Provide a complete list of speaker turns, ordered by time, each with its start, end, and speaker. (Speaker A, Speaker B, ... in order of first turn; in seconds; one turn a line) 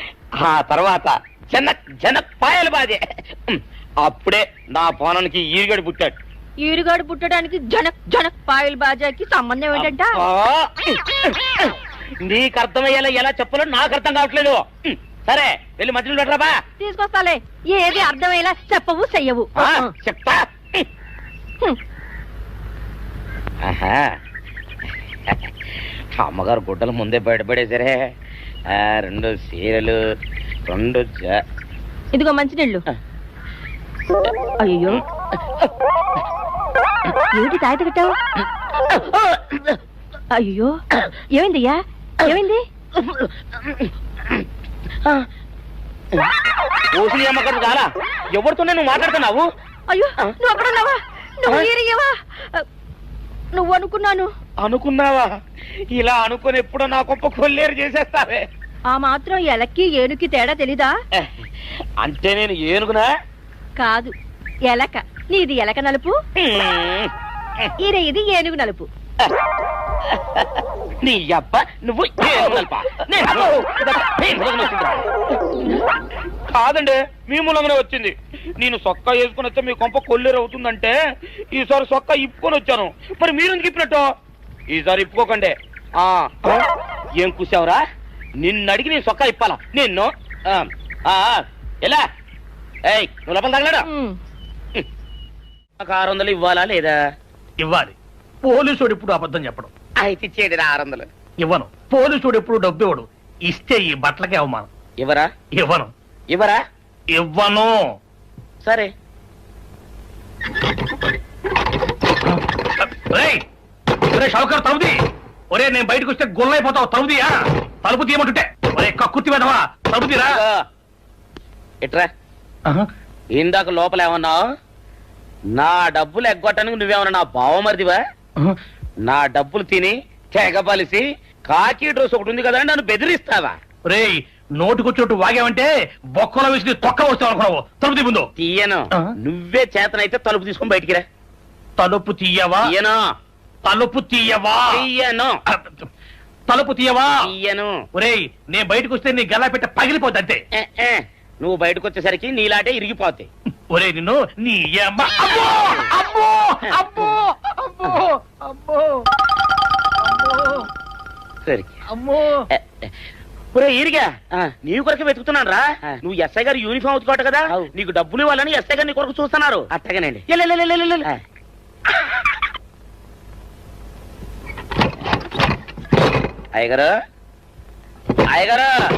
Speaker A: 0.4-6.2
Speaker B: 6.6-10.2
Speaker A: 9.8-11.7
Speaker A: 12.2-16.6
Speaker B: 16.8-19.9
Speaker A: 19.6-20.9
Speaker A: 23.6-24.2
Speaker A: 26.2-28.1
Speaker A: 28.7-30.0
Speaker A: 30.7-31.4
Speaker B: 32.1-32.8
Speaker B: 34.7-35.0
Speaker B: 37.4-38.1
Speaker A: 38.9-39.8
Speaker B: 40.4-40.8
Speaker B: 41.4-42.6
Speaker A: 43.0-44.5
Speaker A: 46.9-49.5
Speaker B: 49.9-52.6
Speaker B: 53.5-54.3
Speaker A: 54.6-55.4
Speaker A: 55.9-58.5
Speaker B: 58.9-60.9
Speaker A: 61.2-61.5
Speaker A: 62.0-63.1
Speaker B: 63.8-64.1
Speaker B: 64.7-66.2
Speaker A: 66.4-67.7
Speaker B: 67.8-68.9
Speaker A: 70.1-75.1
Speaker A: 76.5-81.0
Speaker A: 81.5-84.1
Speaker A: 84.7-86.7
Speaker A: 87.2-87.8
Speaker A: 88.4-92.0
Speaker A: 92.9-93.8
Speaker B: 93.9-94.2
Speaker A: 95.8-97.0
Speaker C: 97.6-97.9
Speaker C: 98.5-99.7
Speaker A: 100.0-101.1
Speaker C: 101.4-104.7
Speaker A: 105.0-105.3
Speaker C: 105.6-105.9
Speaker A: 106.3-106.6
Speaker C: 107.2-107.7
Speaker A: 108.6-108.9
Speaker C: 112.3-113.4
Speaker C: 114.1-114.9
Speaker C: 115.5-117.3
Speaker C: 117.8-120.4
Speaker A: 120.2-120.6
Speaker A: 121.8-122.1
Speaker A: 123.4-124.4
Speaker A: 125.5-128.0
Speaker A: 129.1-133.6
Speaker C: 133.9-138.3
Speaker A: 138.4-141.1
Speaker C: 141.8-142.7
Speaker A: 142.7-143.0
Speaker C: 143.7-144.9
Speaker A: 144.8-145.3
Speaker C: 145.5-145.8
Speaker C: 146.5-147.2
Speaker A: 147.3-147.7
Speaker C: 148.0-150.4
Speaker A: 150.6-153.3
Speaker C: 153.7-159.0
Speaker A: 155.4-155.8
Speaker A: 156.7-157.1
Speaker C: 160.1-160.7
Speaker A: 161.5-161.8
Speaker C: 161.9-162.4
Speaker A: 162.5-162.9
Speaker A: 163.5-171.2
Speaker A: 176.6-176.9
Speaker A: 178.3-178.7